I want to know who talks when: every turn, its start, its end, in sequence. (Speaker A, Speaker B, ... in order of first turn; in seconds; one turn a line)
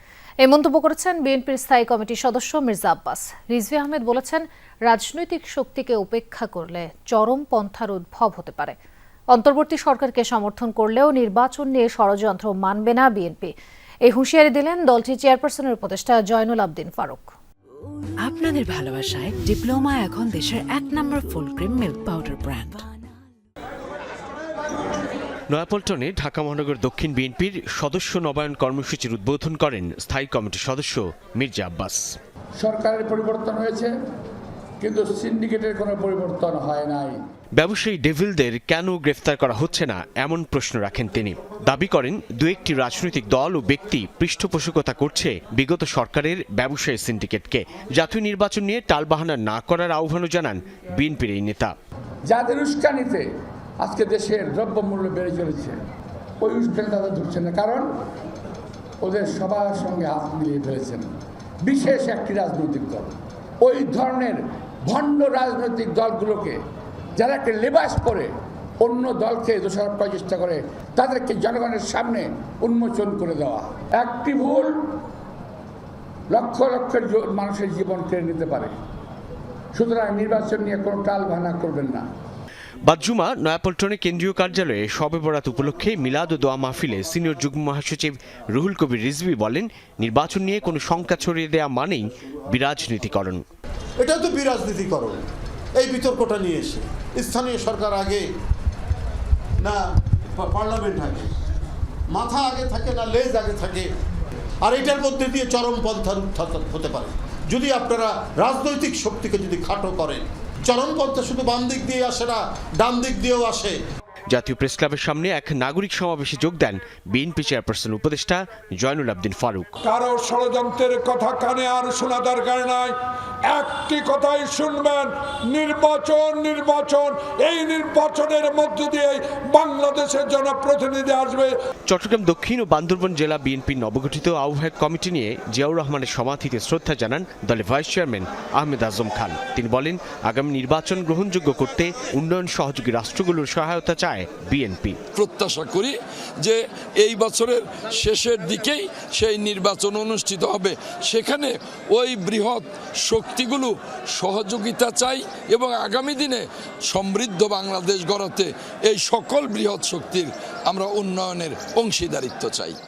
Speaker A: 0.4-8.8
Speaker A: 9.3-13.5
Speaker A: 14.0-17.3
Speaker B: 18.2-22.9
Speaker C: 25.5-32.1
Speaker D: 32.6-33.9
Speaker D: 34.8-37.2
Speaker C: 37.6-51.7
Speaker D: 52.3-53.2
Speaker D: 53.8-55.8
Speaker D: 56.4-57.9
Speaker D: 59.0-61.1
Speaker D: 61.6-66.6
Speaker D: 67.2-74.9
Speaker D: 76.3-78.7
Speaker D: 79.7-82.0
Speaker C: 82.8-93.4
Speaker E: 94.0-95.2
Speaker E: 95.8-98.2
Speaker E: 100.3-101.3
Speaker E: 102.1-103.9
Speaker E: 104.6-113.7
Speaker C: 114.3-119.8
Speaker F: 119.9-123.0
Speaker F: 123.5-131.5
Speaker C: 131.9-145.0
Speaker G: 145.1-162.8